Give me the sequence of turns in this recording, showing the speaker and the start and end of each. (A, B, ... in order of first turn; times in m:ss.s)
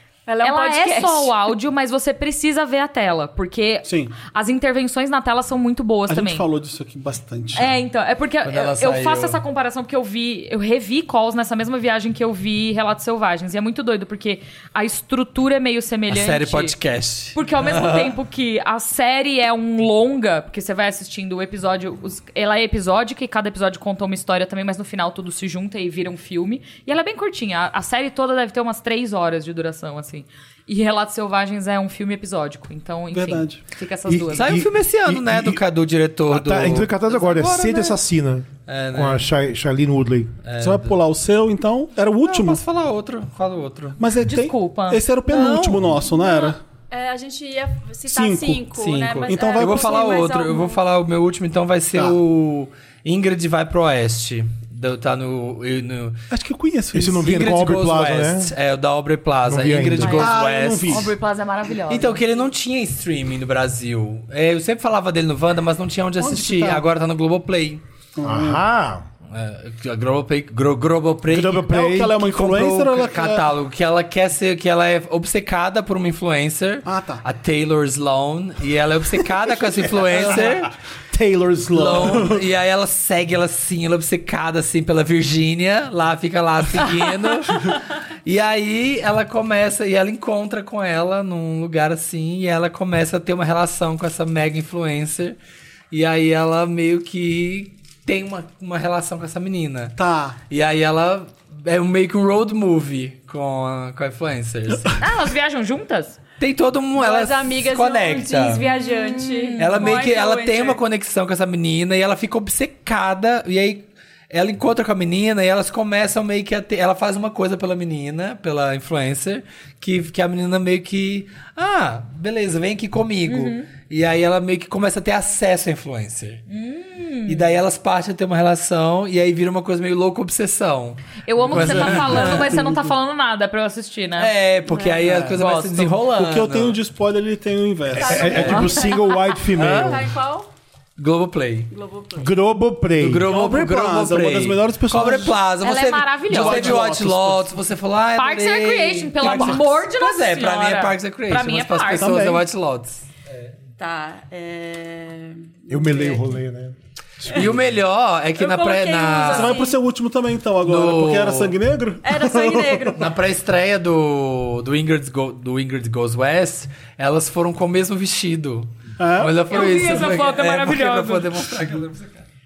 0:00.2-0:01.3 A
0:00.4-0:06.4 B
0:03.8-0:04.1 C
0:06.1-0:07.7 C
0:07.5-0:16.7 B
0:08.4-0:09.4 D
0:16.1-0:18.1 D
0:17.3-0:34.6 B
0:33.1-0:33.6 C
0:34.0-0:35.6 E
0:34.3-0:37.9 D
0:36.3-0:40.4 E
0:38.7-0:39.3 D
0:40.4-0:41.0 D
0:40.6-0:42.6 C
0:42.2-0:44.0 D
0:44.0-0:46.6 C
0:44.3-0:45.0 B
0:45.3-0:45.9 D
0:46.1-0:50.8 A
0:48.1-0:48.7 C
0:48.8-0:56.2 D
0:49.2-0:50.1 C
0:56.3-0:57.3 C
0:56.9-0:58.5 E
0:57.2-1:01.1 D
0:59.4-1:00.2 E
1:00.0-1:02.2 B
1:00.1-1:01.1 C
1:01.9-1:07.8 D
1:06.2-1:06.8 C
1:08.2-1:08.6 C
1:08.2-1:09.0 E
1:09.3-1:11.6 D
1:11.3-1:12.2 E
1:11.7-1:13.4 C
1:12.2-1:20.7 D
1:16.8-1:17.2 C
1:20.0-1:20.4 C
1:21.1-1:22.4 E
1:21.7-1:35.4 D
1:21.8-1:22.4 C
1:35.9-1:40.0 D
1:40.0-1:40.4 C
1:40.5-1:45.0 D
1:45.0-1:46.2 B
1:46.4-1:48.7 D
1:46.9-1:50.8 A
1:48.7-1:49.8 B
1:49.6-2:06.4 D
2:03.3-2:03.7 B
2:06.5-2:07.5 B
2:07.3-2:12.6 D
2:11.2-2:14.3 B
2:11.5-2:12.9 C
2:12.1-2:12.5 A
2:14.2-2:16.8 D
2:14.7-2:15.0 A
2:14.9-2:18.6 C
2:18.0-2:20.5 A
2:18.0-2:18.7 D
2:18.0-2:20.0 E
2:18.4-2:19.0 B
2:19.6-2:20.0 D
2:21.0-2:21.7 D
2:21.7-2:22.3 A
2:22.2-2:23.3 E
2:23.0-2:33.5 D
2:23.2-2:25.4 C
2:25.6-2:26.9 B
2:26.2-2:27.5 C
2:28.2-2:32.2 B
2:29.2-2:29.6 C
2:31.9-2:32.4 C
2:33.8-2:36.3 A
2:35.7-2:37.6 E
2:37.2-2:39.6 D
2:38.4-2:39.8 A
2:39.2-2:43.0 C
2:40.6-2:41.6 D
2:42.0-2:43.0 A
2:43.0-2:52.2 D
2:49.0-2:49.6 C
2:49.5-2:51.3 B